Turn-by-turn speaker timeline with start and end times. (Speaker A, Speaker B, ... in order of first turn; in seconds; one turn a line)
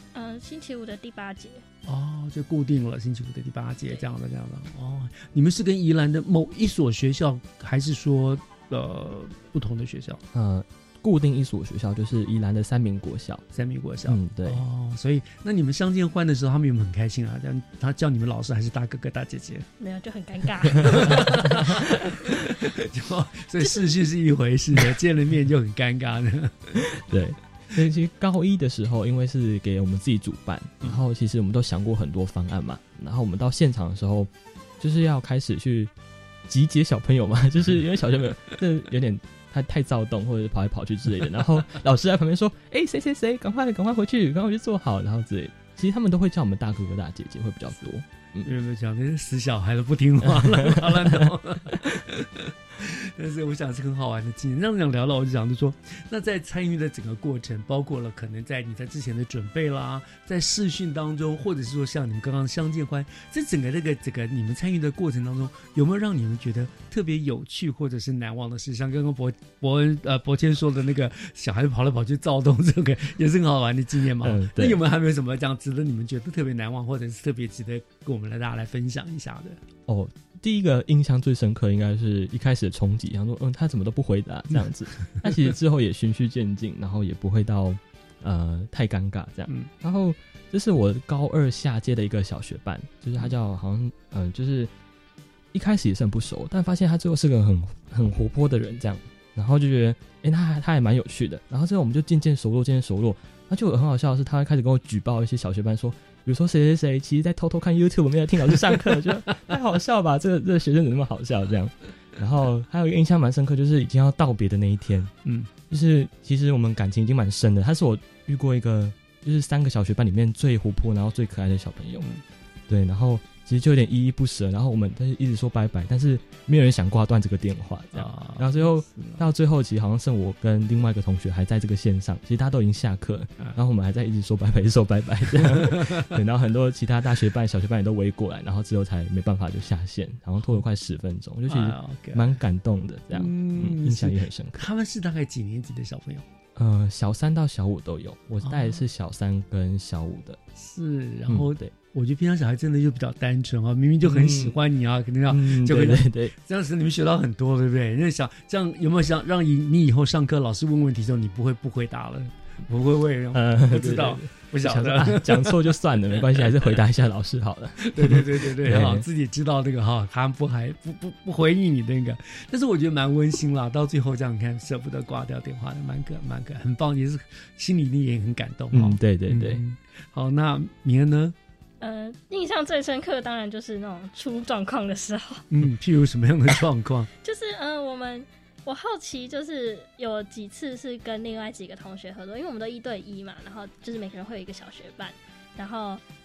Speaker A: 0.1-1.6
Speaker B: 1.9-10.2
Speaker C: 10.3-13.4
Speaker B: 13.5-19.6
Speaker C: 14.0-14.6
Speaker A: 19.8-21.9
Speaker B: 20.9-21.8
Speaker B: 22.4-26.8
Speaker C: 27.0-35.9
Speaker C: 36.5-48.5
Speaker B: 48.4-79.6
Speaker C: 50.2-51.3
Speaker C: 74.2-74.8
Speaker C: 79.9-94.7
Speaker B: 84.7-85.2
Speaker C: 95.5-115.1
Speaker B: 115.2-115.5
Speaker C: 115.7-122.1
Speaker B: 122.0-122.2
Speaker C: 122.7-144.6
Speaker B: 127.9-129.2
Speaker B: 135.4-136.0
Speaker B: 141.5-142.4
Speaker B: 143.1-146.2
Speaker C: 146.6-150.4
Speaker B: 148.4-148.8
Speaker B: 150.6-166.7
Speaker C: 151.3-151.7
Speaker C: 154.0-154.6
Speaker C: 155.3-156.3
Speaker C: 163.3-169.0
Speaker B: 167.8-181.3
Speaker C: 178.7-179.6
Speaker A: 181.8-185.4
Speaker B: 185.5-187.1
Speaker A: 187.2-196.0